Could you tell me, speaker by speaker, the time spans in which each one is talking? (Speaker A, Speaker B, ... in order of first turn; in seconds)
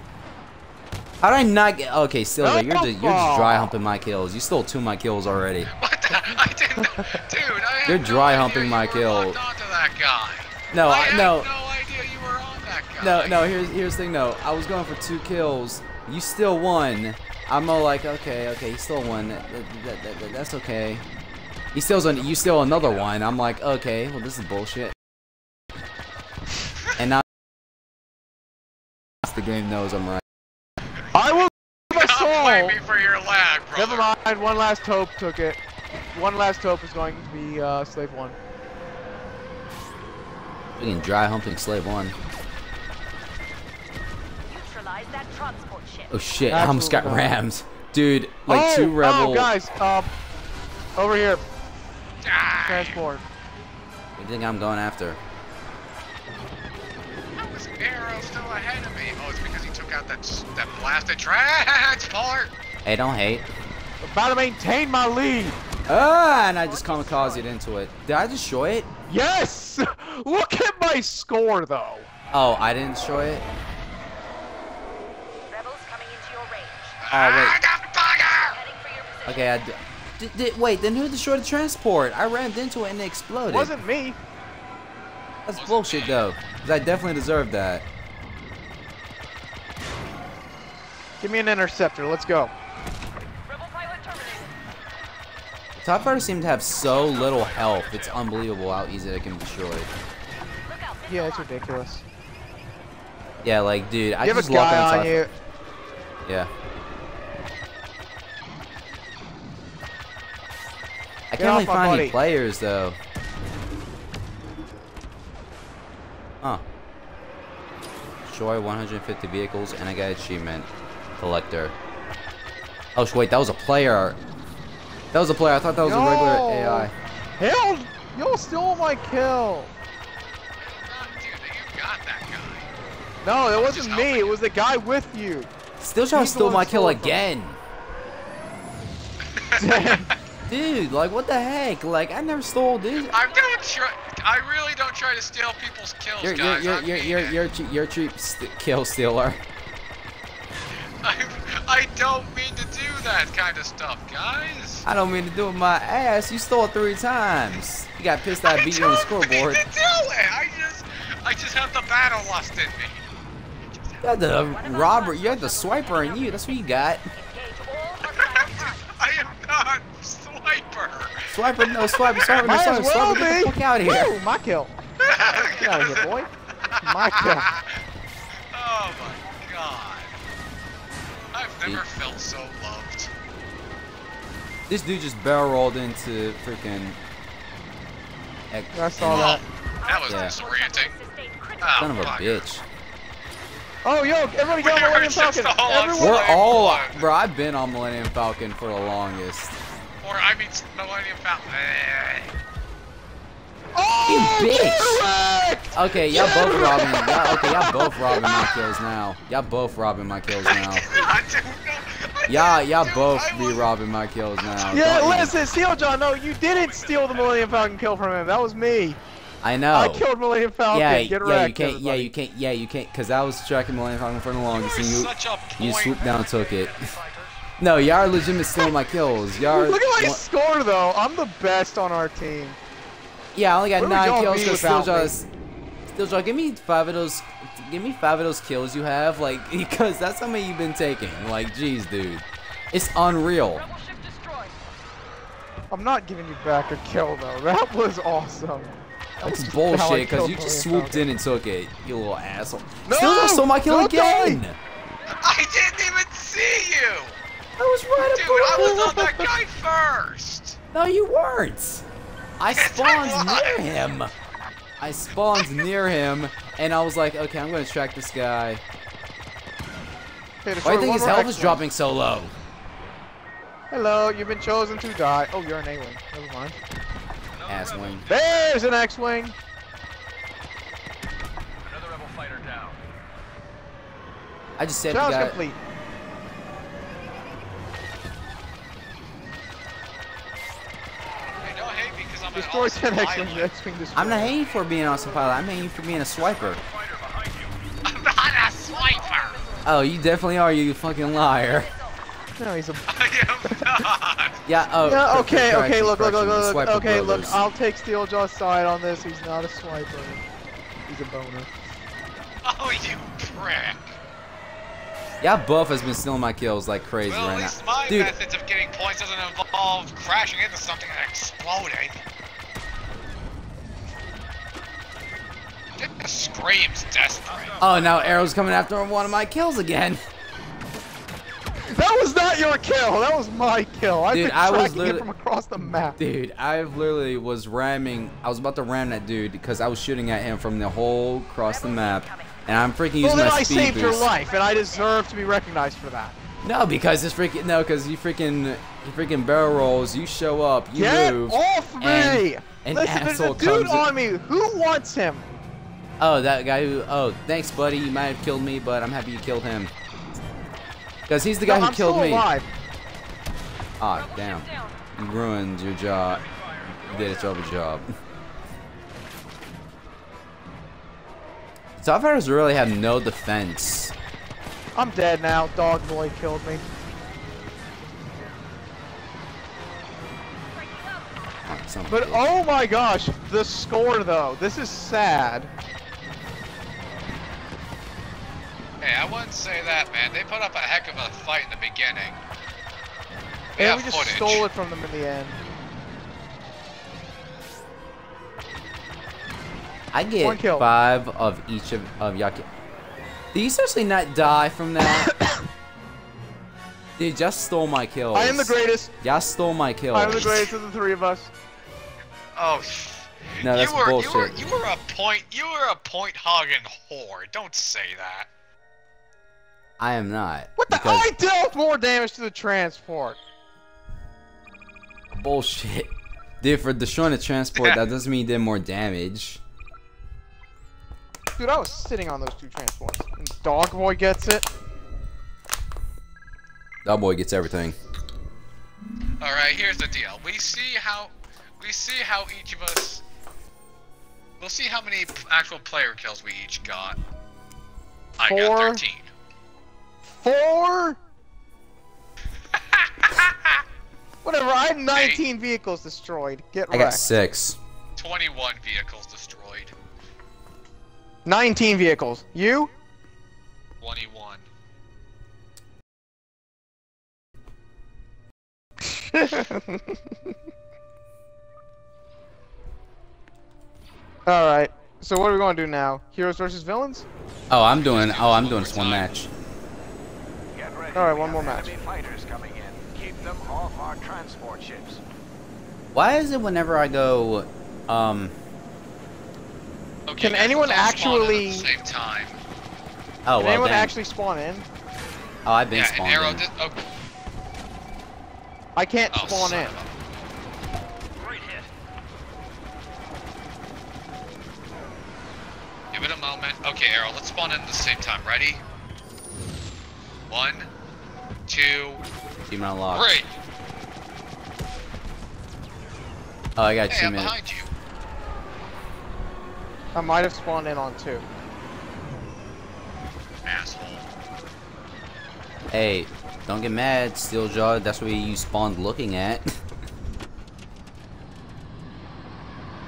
Speaker A: 1.2-5.7, 7.8-9.4, 10.7-11.5, 13.0-21.1, 21.7-24.9, 26.9-27.2, 29.2-30.2, 40.8-42.1, 46.1-49.5, 54.1-55.2, 62.8-63.5, 65.9-68.9, 72.3-73.4, 77.1-77.6, 79.2-83.7, 85.4-87.8, 95.8-99.9, 103.4-105.2, 106.2-106.5, 111.3-113.0, 118.2-121.7, 123.0-124.2, 125.1-126.9, 135.8-137.6, 140.5-143.1, 146.2-149.4, 154.8-159.6, 164.0-167.1, 171.3-174.1, 184.7-187.0, 188.5-189.4, 190.1-190.3, 191.8-192.6, 196.0-199.6, 204.1-205.0, 205.7-210.9, 212.3-215.4, 219.4-220.1, 220.7-226.8, 227.6-230.2, 233.3-235.3, 235.9-243.6, 249.2-254.6, 257.6-259.3, 260.7-261.8, 262.4-264.1, 264.8-268.6, 270.6-272.3, 277.5-278.1, 284.6-285.4, 293.9-296.6, 299.6-301.7, 304.4-307.4, 315.2-318.1, 327.6-330.0, 334.1-335.1, 335.9-344.1, 346.4-353.9, 356.0-359.7, 361.1-362.3, 363.8-367.9, 371.8-373.9, 381.4-382.2, 399.9-402.4, 403.3-405.1, 407.0-410.5, 413.4-414.4, 419.8-421.1, 425.1-429.4, 436.8-437.8, 456.7-457.6, 477.5-479.3, 485.9-488.3, 493.2-493.9, 495.4-496.5, 512.5-513.2, 516.6-517.3, 525.7-529.6
Speaker B: 2.4-3.7, 31.1-32.8, 33.7-35.6, 36.1-38.4, 46.5-47.3, 48.5-50.1, 51.0-51.5, 52.6-53.2, 64.0-65.6, 69.1-72.1, 83.5-84.2, 91.2-92.5, 101.1-102.0, 104.2-105.3, 111.4-112.2, 125.8-129.7, 133.2-135.5, 136.1-137.3, 139.5-140.1, 172.4-174.7, 175.3-176.3, 176.8-177.5, 188.7-189.4, 193.8-196.3, 203.7-208.5, 214.7-219.0, 219.7-222.1, 229.4-232.6, 233.8-235.1, 245.7-251.1, 252.8-254.4, 270.4-271.6, 273.7-276.6, 278.1-279.4, 284.9-285.6, 292.3-294.4, 302.4-302.9, 303.4-303.8, 304.8-310.2, 310.9-311.5, 331.7-336.0, 343.0-346.1, 350.7-355.3, 361.4-362.5, 374.7-376.6, 381.9-385.5, 393.6-395.4, 400.2-400.7, 408.1-408.9, 409.9-411.3, 420.6-423.2, 431.4-434.5, 448.2-448.8, 450.2-451.0, 454.2-457.1, 461.2-462.7, 468.9-470.0, 474.2-477.0, 480.9-481.7, 490.2-491.7, 493.4-494.6, 498.8-499.7, 519.9-521.3
Speaker C: 5.8-13.4, 22.3-23.0, 31.9-34.1, 52.2-53.0, 57.4-62.5, 77.0-78.6, 85.5-86.2, 130.6-132.7, 133.5-134.3, 139.3-140.2, 143.1-147.4, 151.0-154.8, 158.3-163.1, 163.7-164.0, 168.0-172.5, 175.0-176.1, 176.7-177.8, 178.5-180.2, 181.3-183.1, 189.0-190.9, 191.6-192.4, 194.5-197.0, 200.0-202.4, 210.3-213.7, 214.4-214.8, 224.5-226.0, 255.1-257.2, 258.0-260.6, 262.5-263.7, 265.3-265.6, 291.4-293.5, 297.8-299.4, 302.9-304.5, 312.4-314.0, 317.1-322.0, 325.8-327.6, 388.8-392.2, 393.6-394.4, 412.4-418.3, 427.5-427.8, 439.2-443.0, 444.4-447.0, 448.2-449.1, 452.5-453.6, 454.9-455.2, 457.9-459.7, 463.8-464.4, 477.8-479.1, 490.1-492.4, 495.7-496.8, 499.1-499.9, 505.9-508.6, 510.3-510.7, 511.5-512.0, 512.9-513.3, 516.9-517.7, 523.4-524.1
Speaker D: 44.4-46.1, 65.9-67.5, 75.5-77.0, 78.4-79.6, 93.5-94.5, 100.7-101.5, 143.3-143.7, 164.3-169.0, 189.8-192.2, 243.6-244.6, 298.7-299.8, 301.1-302.0, 341.4-342.4, 344.2-345.0, 363.9-364.8, 380.5-381.2
Speaker E: 96.8-98.2, 216.4-217.7, 225.9-227.4, 277.3-278.7, 281.6-282.8, 296.1-297.6, 327.2-328.3, 366.1-367.5, 480.5-485.0, 501.1-501.7